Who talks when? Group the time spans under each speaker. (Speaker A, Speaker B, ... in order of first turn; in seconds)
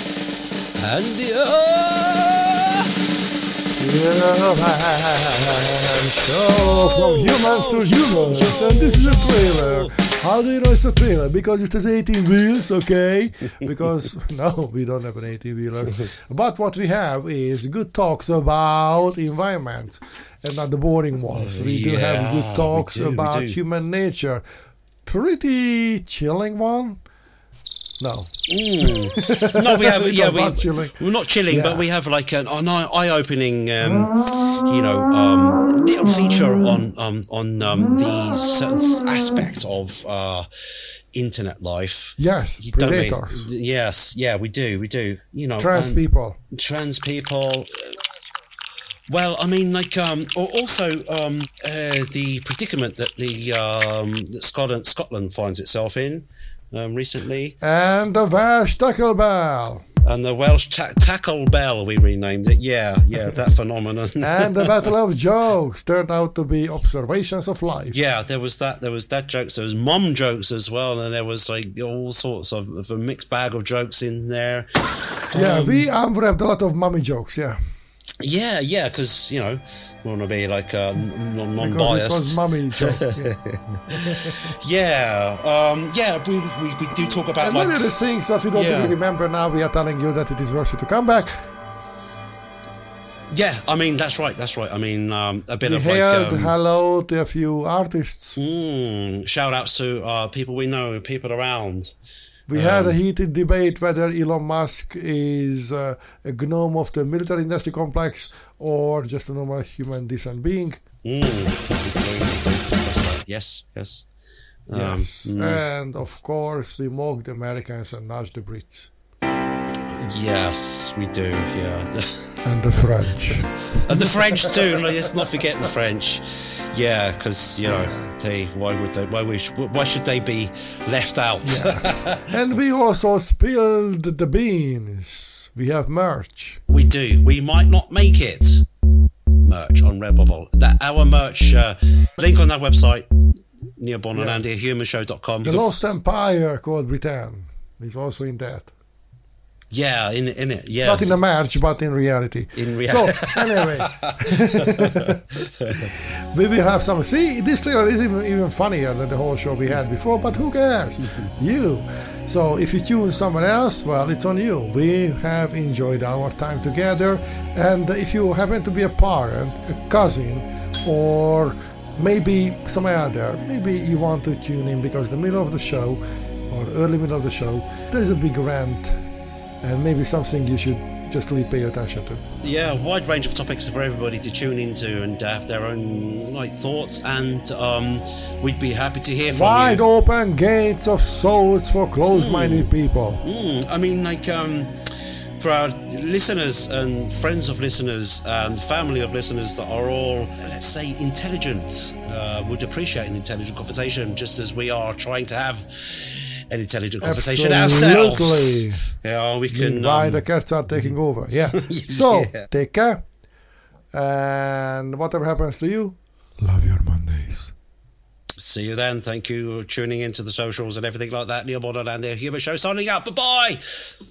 Speaker A: 0.8-2.8, 6.5-10.1, 21.3-23.6, 28.5-40.5, 41.1-46.0, 46.5-48.0, 49.1-57.5, 60.0-64.9, 67.9-74.7, 75.3-75.9, 78.2-87.9, 88.5-89.0, 93.3-96.5, 98.4-101.9, 102.5-103.0, 111.0-114.0, 114.7-115.6, 120.0-122.4, 123.9-132.4, 136.7-138.7, 139.4-143.1, 143.8-145.7, 149.7-151.2, 152.6-155.9, 182.4-189.8, 192.1-192.7, 193.2-194.7, 195.4-210.9, 211.5-212.5, 218.4-223.6
Speaker B: 3.8-24.4, 25.1-27.0, 28.0-28.3, 29.1-31.0, 31.5-31.8, 42.2-43.4, 45.6-46.4, 57.6-59.8, 64.2-68.0, 75.3-77.6, 81.6-83.3, 87.4-91.3, 95.7-98.4, 102.5-110.8, 114.7-118.9, 122.5-123.6, 127.7-128.1, 131.4-136.6, 144.2-144.4, 145.4-148.7, 150.8-155.2, 156.3-178.9, 179.6-182.2, 189.3-193.2, 207.0-208.8, 209.5-213.0, 213.9-217.5